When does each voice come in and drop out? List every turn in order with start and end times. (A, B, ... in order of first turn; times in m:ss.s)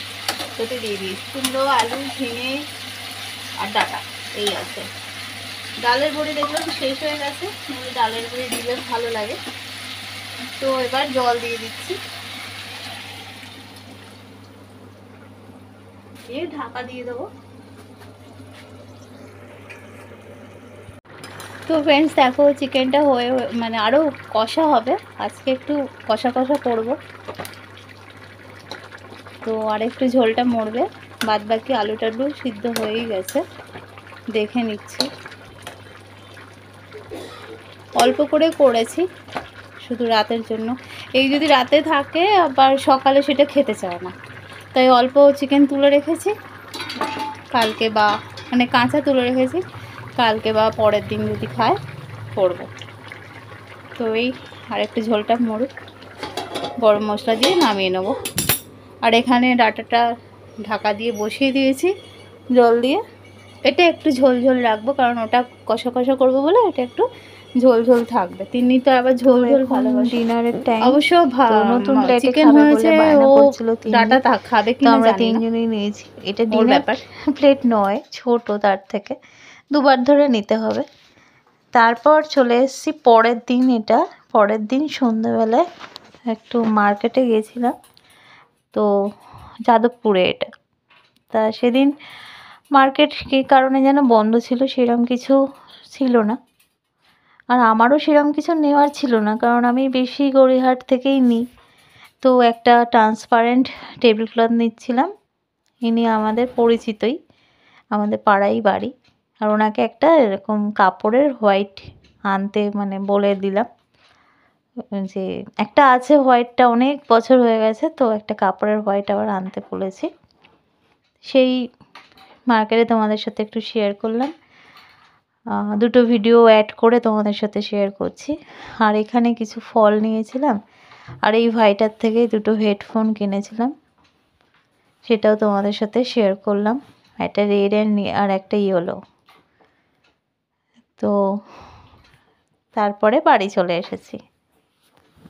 0:00.6-0:02.5 A
0:03.6-0:04.8 A
0:05.8-0:09.4 A
0:10.6-0:12.0 A
0:16.3-0:17.2 A
0:21.7-0:27.0 A
0:29.4-0:33.4 A
0:34.3-0:35.1 A
0:38.0-0:39.0 A
0:39.8-0:44.1 A
0:44.7-0:46.3 A
0:47.5-0:49.6 A
0:50.2-0:51.8 A
0:52.4-0:52.7 A
0:54.0-0:55.7 A
0:56.8-0:58.1 A
0:59.0-1:00.0 A
1:00.6-1:01.9 A
1:02.5-1:03.0 A
1:03.7-1:07.0 A
1:07.6-1:10.2 A
1:09.2-1:11.0 B
1:10.8-1:15.4 A
1:11.6-1:14.2 B
1:14.8-1:19.2 B
1:16.5-1:17.0 A
1:19.7-1:20.8 B
1:21.8-1:25.6 B
1:26.3-1:27.7 B
1:29.7-1:30.4 B
1:31.3-1:31.9 B
1:32.8-1:35.4 B
1:35.9-1:36.4 B
1:37.5-1:41.4 B
1:42.2-1:45.1 B
1:45.8-1:47.1 B
1:47.9-1:48.9 B
1:49.4-1:51.7 B
1:51.0-1:51.8 A
1:52.3-1:53.6 B
1:55.0-2:00.1 B
2:01.3-2:01.5 B
2:02.5-2:04.3 B
2:05.8-2:10.6 B
2:11.2-2:13.7 B
2:15.0-2:19.0 B
2:22.7-2:24.2 B